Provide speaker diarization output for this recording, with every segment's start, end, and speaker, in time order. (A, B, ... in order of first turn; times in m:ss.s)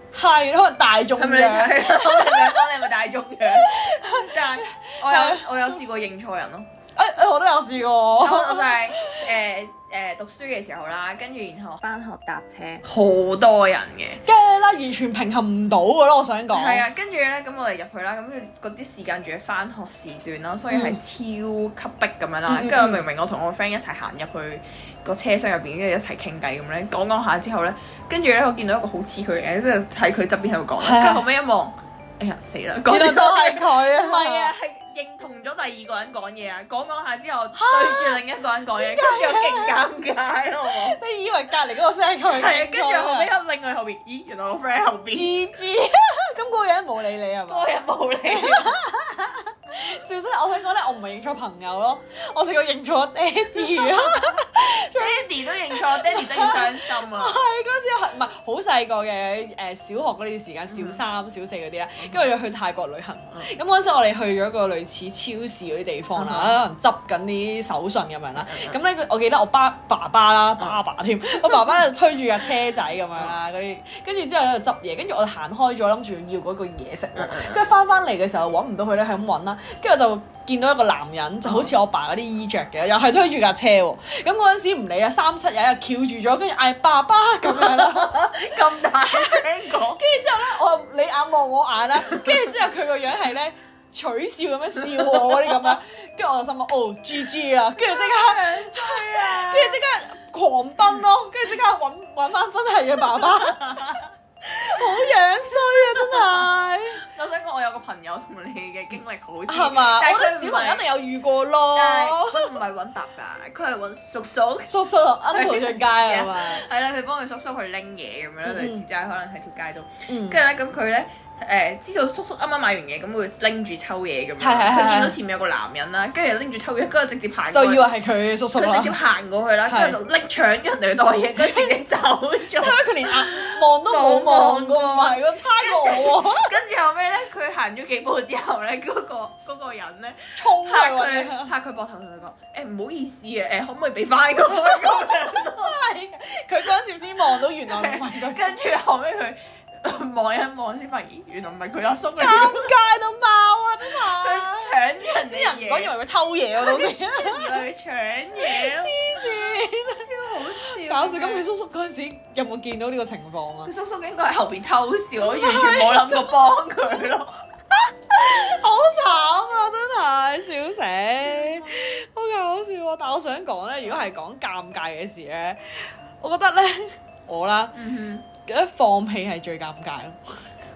0:00.1-0:02.7 A
0:01.2-0:06.7 B
0:03.5-0:05.8 A
0:07.0-0:09.2 A
0:08.2-0:12.0 B
0:11.9-0:12.7 A
0:12.7-0:14.2 B
0:14.2-0:16.9 A
0:16.5-0:41.0 B
0:20.7-0:21.0 A
0:22.5-0:23.0 A
0:30.8-0:31.2 A
0:32.8-0:34.5 A
0:37.6-0:38.2 A
0:38.8-0:39.8 A
0:40.6-0:43.3 A
0:42.3-0:45.3 B
0:45.1-0:47.8 A
0:47.5-0:48.7 B
0:48.3-1:28.3 A
0:53.8-0:54.3 B
0:54.9-0:57.4 B
1:00.7-1:01.0 B
1:06.2-1:06.6 B
1:08.4-1:08.8 B
1:17.2-1:17.6 B
1:21.5-1:21.7 B
1:27.4-1:30.0 B
1:29.1-1:47.0 A
1:32.1-1:32.5 B
1:34.9-1:35.8 B
1:37.8-1:39.8 B
1:43.2-1:44.0 B
1:45.7-1:46.4 B
1:47.0-1:50.8 B
1:49.5-1:52.5 A
1:51.7-2:07.9 B
1:54.7-1:56.6 A
1:58.4-1:58.8 A
2:00.1-2:00.4 A
2:04.4-2:05.2 A
2:07.5-2:09.0 A
2:08.5-2:25.8 B
2:09.7-2:10.0 A
2:12.5-2:16.6 A
2:20.4-2:21.5 A
2:24.6-2:28.6 A
2:27.7-2:32.7 B
2:32.2-2:37.6 A
2:33.9-2:35.9 B
2:36.6-2:41.5 B
2:38.4-2:40.1 A
2:40.7-2:43.7 A
2:43.6-2:47.4 B
2:45.2-2:46.4 A
2:47.7-2:57.7 A
2:51.2-2:52.0 B
2:57.7-2:58.3 B
2:58.4-3:00.3 A